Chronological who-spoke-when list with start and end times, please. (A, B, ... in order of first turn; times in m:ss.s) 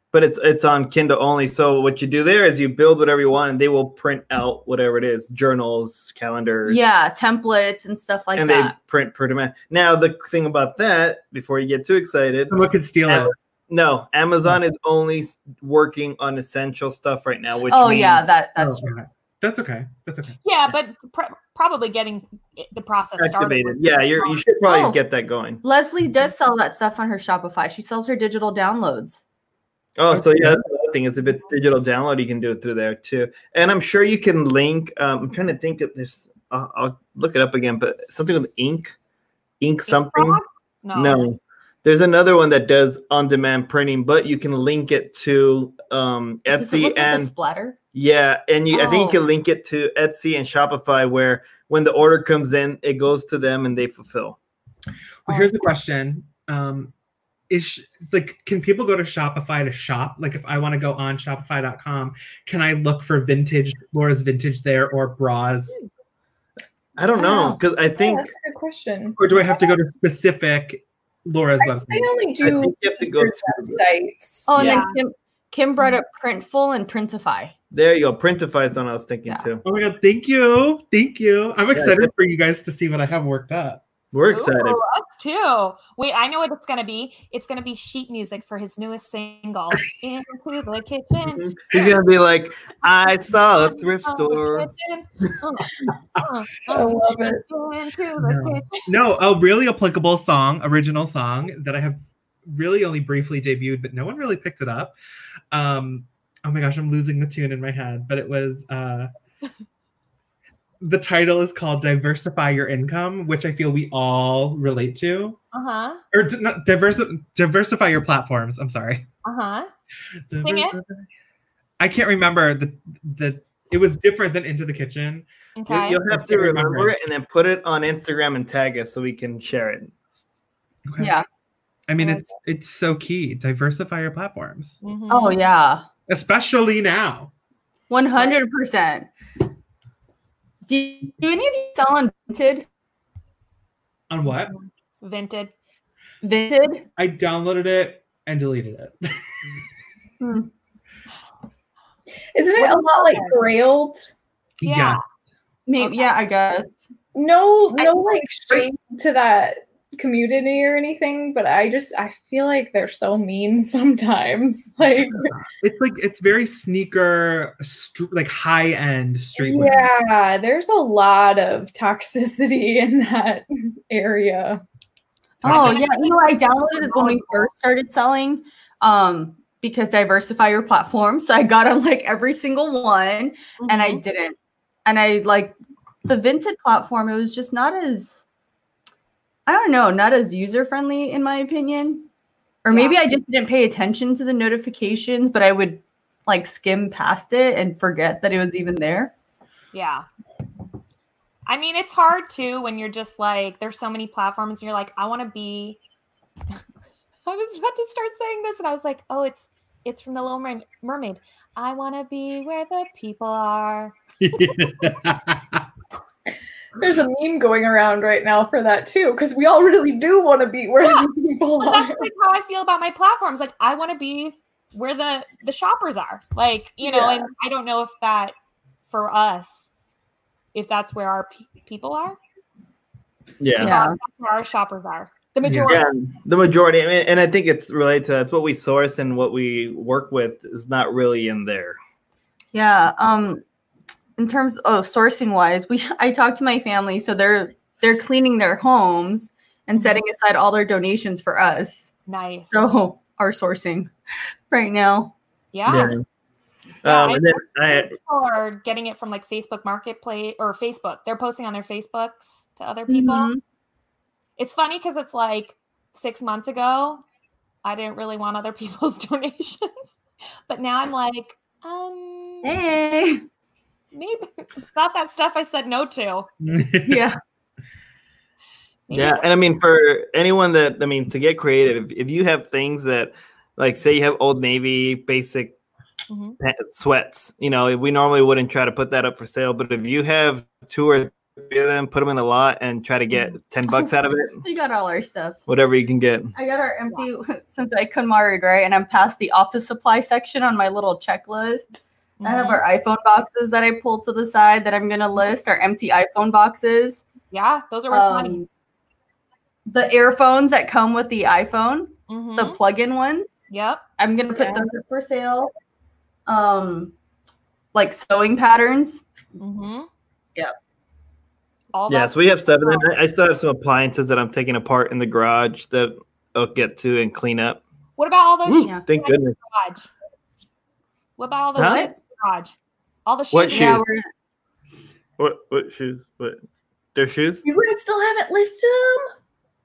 0:00.1-0:06.9 A
0:06.6-0:08.7 B
0:08.3-0:18.3 A
0:12.5-0:13.3 C
0:17.7-0:18.9 B
0:18.6-0:20.4 C
0:20.4-0:24.4 D
0:23.2-0:25.6 A
0:24.6-0:25.0 B
0:25.6-0:29.2 B
0:30.0-0:39.0 A
0:30.1-0:30.6 C
0:39.6-0:40.4 A
0:39.9-0:41.3 D
0:40.9-0:47.3 A
0:46.5-0:47.8 B
0:47.9-0:54.4 A
0:48.7-0:49.2 B
0:55.3-0:56.9 C
0:57.5-1:05.8 C
1:07.0-1:08.3 A
1:07.1-1:07.6 B
1:08.0-1:09.3 E
1:09.2-1:12.1 C
1:11.6-1:14.8 E
1:12.4-1:13.8 A
1:14.5-1:17.5 B
1:14.6-1:15.0 D
1:17.7-1:19.6 A
1:19.6-1:23.8 C
1:21.7-1:22.1 A
1:24.1-1:24.8 A
1:24.3-1:31.4 D
1:31.3-1:34.7 A
1:33.6-1:38.9 D
1:35.8-1:36.2 C
1:36.7-1:37.4 E
1:38.2-1:44.9 C
1:45.5-1:49.1 C
1:50.8-1:55.4 C
1:55.5-1:56.0 D
1:56.1-1:59.1 C
1:59.2-1:59.7 D
2:00.3-2:01.0 C
2:00.4-2:00.8 D
2:01.8-2:05.2 C
2:05.6-2:06.0 D
2:05.7-2:09.9 A
2:06.0-2:06.9 C
2:10.9-2:11.1 C
2:11.0-2:11.2 B
2:11.9-2:14.8 C
2:12.0-2:12.2 D
2:14.8-2:15.4 D
2:15.1-2:15.8 B
2:16.1-2:17.3 C
2:17.9-2:19.1 B
2:20.6-2:22.6 B
2:24.1-2:24.5 C
2:24.3-2:25.5 D
2:26.2-2:26.8 B
2:27.0-2:29.5 C
2:30.2-2:30.5 B
2:32.3-2:34.1 E
2:32.6-2:33.3 D
2:34.6-2:35.0 C
2:34.6-2:35.0 D
2:35.7-2:36.7 B
2:37.1-2:45.3 E
2:37.7-2:38.7 B
2:45.4-2:49.9 C
2:49.4-2:54.6 E
2:55.4-2:55.8 C
2:55.4-3:08.2 B
2:55.4-2:57.5 D
3:03.6-3:04.0 D
3:09.5-3:12.1 B
3:12.6-3:19.1 B
3:12.7-3:13.0 D
3:19.7-3:20.0 D
3:21.4-3:25.8 D
3:27.2-3:34.5 D
3:34.2-3:35.6 C
3:36.8-3:42.0 E
3:40.8-3:41.1 D
3:41.6-3:48.3 D
3:46.8-3:47.3 B
3:48.9-3:49.7 D
3:50.5-3:52.2 D
3:53.4-3:53.8 A
3:53.6-3:54.0 B
3:53.6-3:55.8 D
3:55.4-3:55.8 C
3:55.7-4:01.8 A
4:02.5-4:03.4 B
4:04.2-4:11.9 B
4:09.8-4:10.0 D
4:12.1-4:12.7 D
4:12.5-4:13.9 B
4:14.5-4:15.1 B
4:15.5-4:16.0 D
4:15.7-4:16.0 A
4:16.8-4:17.9 A
4:16.8-4:23.3 D
4:22.9-4:23.4 B
4:24.4-4:27.0 D
4:27.6-4:30.0 D
4:30.5-4:32.6 D
4:32.4-4:33.2 B
4:33.9-4:36.3 D
4:36.4-4:37.0 C
4:36.8-4:37.2 B
4:38.9-4:39.2 D
4:38.9-4:45.6 A
4:46.1-4:46.4 D
4:46.4-4:54.4 A
4:53.1-4:53.9 D
4:54.4-4:55.4 B
4:55.5-4:56.3 A
4:56.3-5:01.7 B
5:02.2-5:02.6 D
5:02.2-5:07.0 B
5:07.3-5:08.4 D
5:07.9-5:08.5 B
5:09.6-5:13.4 B
5:12.1-5:12.6 D
5:13.5-5:13.8 D
5:14.0-5:15.5 B
5:14.3-5:14.6 E
5:16.3-5:16.9 B
5:17.7-5:19.0 B
5:19.4-5:19.9 D
5:21.7-5:22.9 D
5:21.9-5:27.6 A
5:28.0-5:29.9 D
5:28.4-5:29.3 A
5:31.2-5:32.5 D
5:31.6-5:31.8 A
5:31.6-5:31.9 B
5:33.0-5:33.8 D
5:33.3-5:33.9 A
5:33.5-5:34.0 B
5:35.2-5:36.4 A
5:36.9-5:37.4 A
5:37.4-5:39.1 E